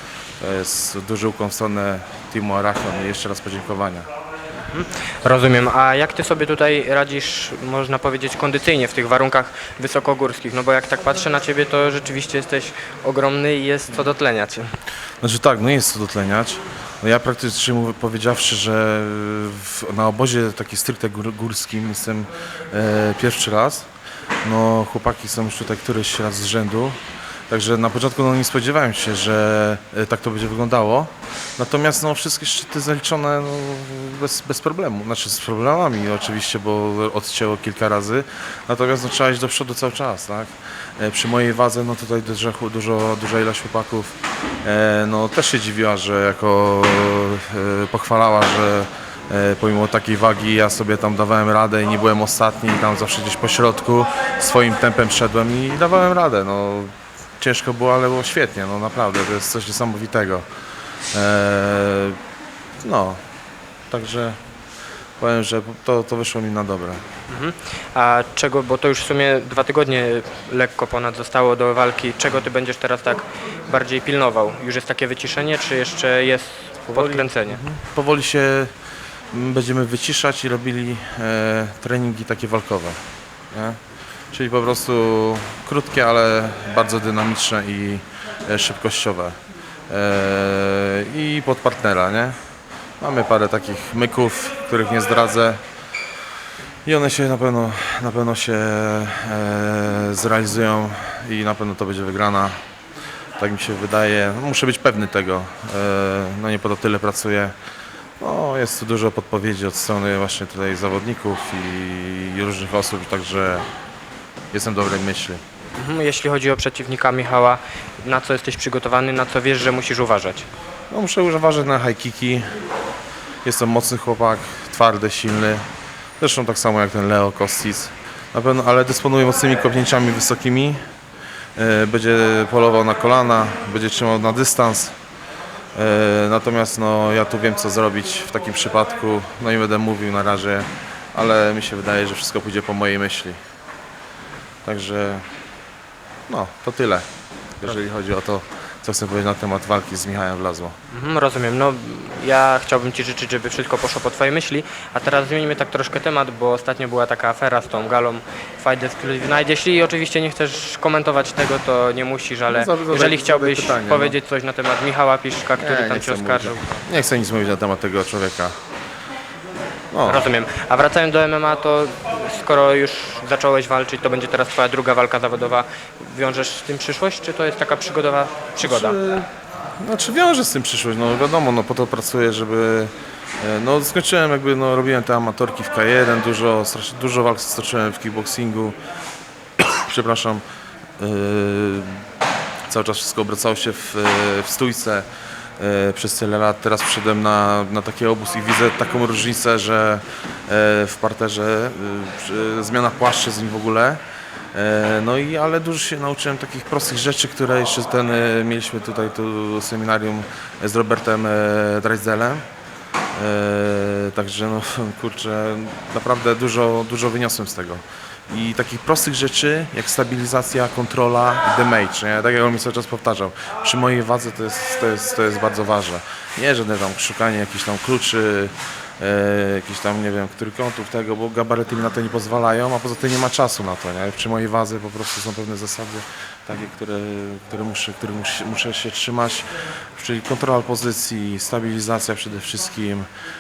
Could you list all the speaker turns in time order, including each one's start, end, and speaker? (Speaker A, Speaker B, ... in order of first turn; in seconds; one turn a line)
Speaker A: 0.4-4.1
Speaker B: 4.7-14.7
Speaker A: 15.2-23.9
Speaker A: 24.4-27.0
Speaker A: 27.5-60.5
Speaker A: 61.1-62.2
Speaker A: 62.8-63.2
Speaker A: 63.9-64.4
Speaker A: 65.2-67.0
Speaker B: 67.3-77.6
Speaker A: 76.9-78.7
Speaker A: 79.3-83.8
Speaker A: 84.3-89.4
Speaker A: 89.9-92.4
Speaker A: 93.0-95.6
Speaker A: 96.8-102.6
Speaker A: 103.4-107.5
Speaker A: 108.2-113.7
Speaker A: 114.5-115.4
Speaker B: 115.8-120.5
Speaker A: 120.9-122.5
Speaker A: 123.4-125.6
Speaker A: 126.2-130.8
Speaker A: 131.6-134.9
Speaker A: 135.8-143.4
Speaker A: 144.6-145.2
Speaker A: 146.3-147.1
Speaker A: 147.6-150.8
Speaker B: 150.9-166.8
Speaker A: 162.5-164.2
Speaker A: 165.6-168.6
Speaker A: 169.9-170.3
Speaker B: 170.1-179.0
Speaker A: 178.6-188.8
Speaker A: 189.6-190.4
Speaker A: 191.0-192.0
Speaker A: 192.7-195.1
Speaker A: 195.6-204.0
Speaker A: 204.5-212.4
Speaker A: 213.1-243.1